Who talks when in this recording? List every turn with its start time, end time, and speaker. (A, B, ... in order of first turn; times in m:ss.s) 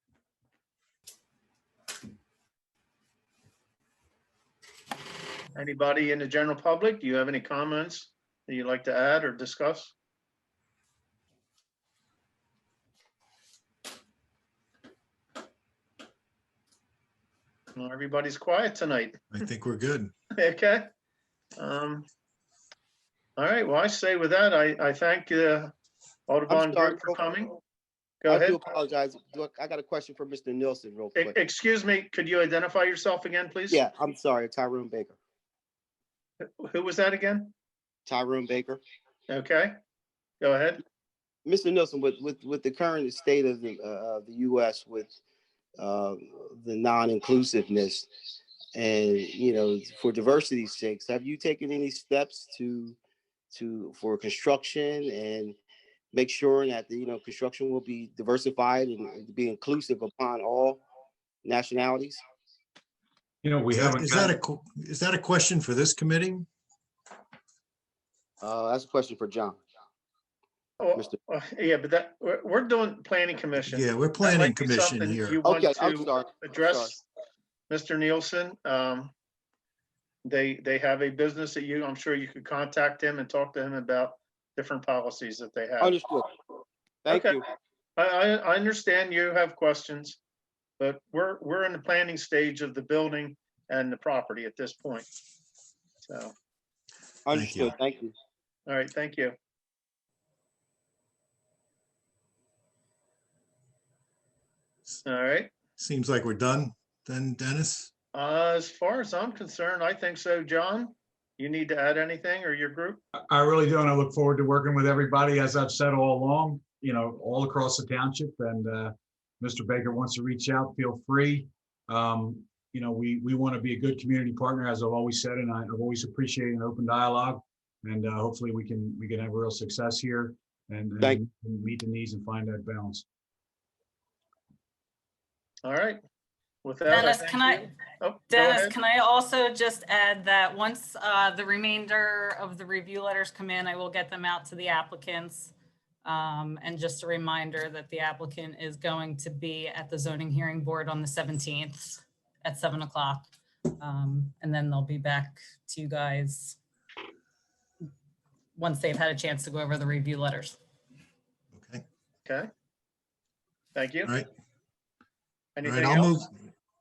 0:05.5-0:09.9 A
0:17.8-0:19.2 A
0:19.3-0:20.1 B
0:20.4-0:20.9 A
0:21.6-0:22.1 A
0:23.4-0:25.7 A
0:26.3-0:27.5 A
0:26.5-0:27.2 C
0:28.2-0:28.6 A
0:28.2-0:31.4 C
0:31.2-0:33.8 A
0:33.7-0:35.2 C
0:36.4-0:37.5 A
0:38.0-0:38.8 C
0:39.3-0:39.7 A
0:40.4-0:40.8 A
0:41.4-0:45.1 C
0:45.8-0:48.1 C
0:48.7-0:53.0 C
0:53.5-0:55.6 C
0:56.1-1:00.8 C
1:01.4-1:02.2 C
1:03.4-1:04.3 D
1:03.7-1:06.5 B
1:08.4-1:09.6 C
1:10.8-1:17.0 A
1:13.6-1:15.4 B
1:15.4-1:17.0 C
1:17.7-1:19.1 A
1:20.2-1:26.0 A
1:25.8-1:26.3 C
1:27.0-1:27.4 C
1:27.1-1:27.4 A
1:28.0-1:30.2 A
1:30.8-1:35.0 A
1:36.0-1:36.3 A
1:37.2-1:38.1 C
1:37.3-1:37.7 B
1:38.7-1:39.4 A
1:45.0-1:45.5 A
1:45.8-1:47.9 B
1:48.1-1:53.0 A
1:53.2-2:13.0 D
2:15.6-2:16.0 A
2:16.6-2:18.8 A
2:16.9-2:17.7 E
2:18.3-2:25.5 E
2:26.0-2:36.6 E
2:38.6-2:40.6 E
2:41.5-2:41.8 B
2:43.7-2:44.1 A
2:45.6-2:46.2 A
2:45.6-2:46.3 B